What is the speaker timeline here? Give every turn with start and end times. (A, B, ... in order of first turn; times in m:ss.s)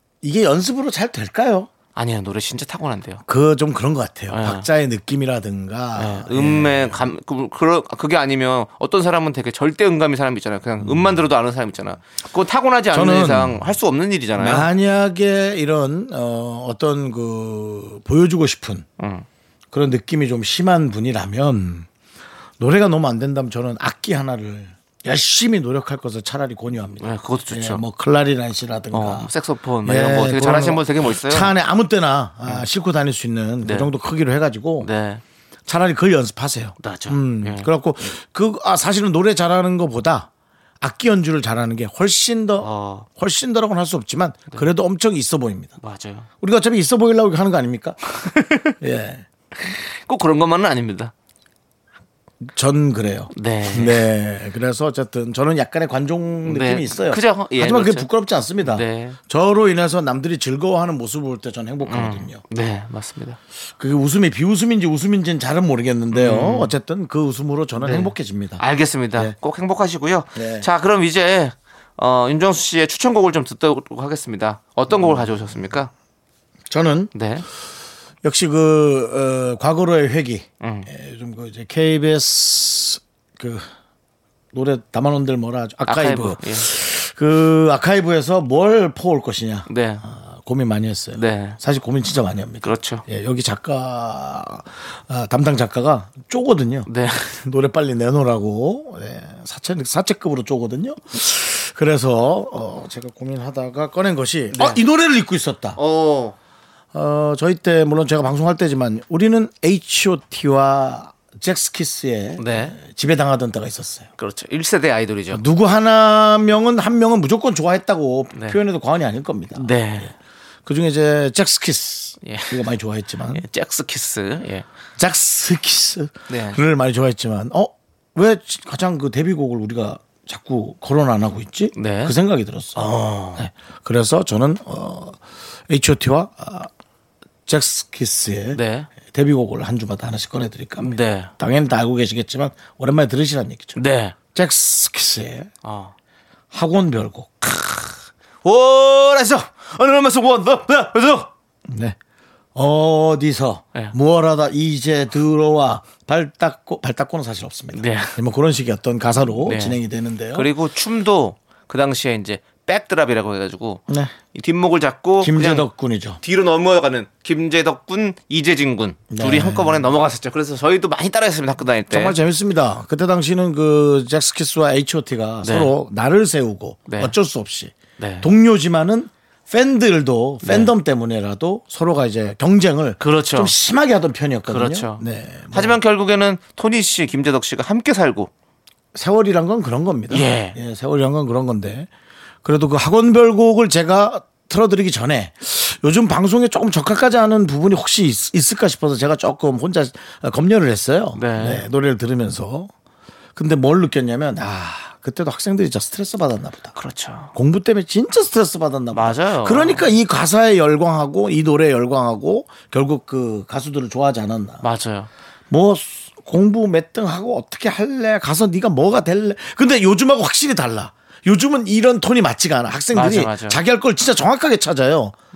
0:00.2-0:01.7 A
0:01.9-0:03.2 B
0:03.3-0:07.1 A
0:04.3-0:04.7 B
0:06.0-0:14.7 B
0:10.8-0:11.2 A
0:12.9-0:13.6 A
0:14.4-0:18.8 A
0:19.0-0:19.2 B
0:19.7-0:21.9 A
0:22.6-0:29.3 A
0:27.0-0:27.8 B
0:28.9-0:31.5 B
0:29.8-0:34.9 A
0:33.6-0:33.9 B
0:34.8-0:35.2 B
0:35.7-0:40.3 A
0:36.8-0:37.7 B
0:40.8-0:45.8 A
0:42.6-0:43.1 B
0:45.8-0:46.3 B
0:46.4-0:48.0 A
0:48.2-0:48.7 B
0:48.8-0:49.2 A
0:49.6-0:51.1 B
0:52.4-1:02.4 A
0:53.3-0:54.0 B
0:56.4-0:58.1 B
0:58.6-0:59.2 B
1:01.8-1:03.4 B
1:03.8-1:08.6 A
1:06.1-1:06.7 B
1:07.8-1:15.9 B
1:10.3-1:10.7 A
1:14.9-1:15.3 A
1:16.7-1:17.1 A
1:17.1-1:17.4 B
1:18.2-1:23.7 A
1:20.6-1:20.9 B
1:24.5-1:45.8 A
1:25.8-1:26.7 B
1:29.7-1:30.0 B
1:31.2-1:31.6 B
1:32.6-1:33.0 B
1:36.9-1:37.4 B
1:44.5-1:44.8 B
1:45.8-1:46.3 B
1:46.9-1:54.1 A
1:52.4-1:52.8 B
1:54.2-1:55.4 B
1:55.3-1:59.8 A
1:58.3-1:58.6 B
1:59.5-2:00.1 B
2:00.6-2:03.4 A
2:02.2-2:02.6 B
2:03.3-2:04.6 B
2:05.0-2:16.7 A
2:06.3-2:06.6 B
2:11.7-2:12.1 B
2:12.7-2:13.5 B
2:17.5-2:23.8 A
2:18.5-2:18.9 B
2:20.8-2:21.3 B
2:23.8-2:24.2 B
2:24.3-2:25.5 A
2:25.6-2:25.9 B
2:26.5-2:27.3 A
2:27.4-2:31.3 B
2:31.7-2:32.0 A
2:32.5-2:40.5 A
2:37.7-2:38.2 B
2:39.4-2:39.8 B
2:40.3-2:45.7 B
2:43.9-2:44.1 A
2:45.2-2:46.2 A
2:46.2-2:52.2 B
2:49.1-2:49.9 A
2:51.9-3:05.8 A
2:55.4-2:55.7 B
2:56.9-2:57.1 B
2:58.0-2:58.3 B
3:00.4-3:00.7 B
3:03.0-3:03.5 B
3:04.5-3:08.3 B
3:08.9-3:11.9 A
3:10.1-3:10.6 B
3:12.4-3:22.7 A
3:21.1-3:21.6 B
3:23.4-3:26.7 A
3:26.7-3:27.3 B
3:27.3-3:34.6 A
3:28.9-3:29.9 B
3:34.6-3:35.1 B
3:35.5-3:45.1 A
3:42.9-3:43.6 B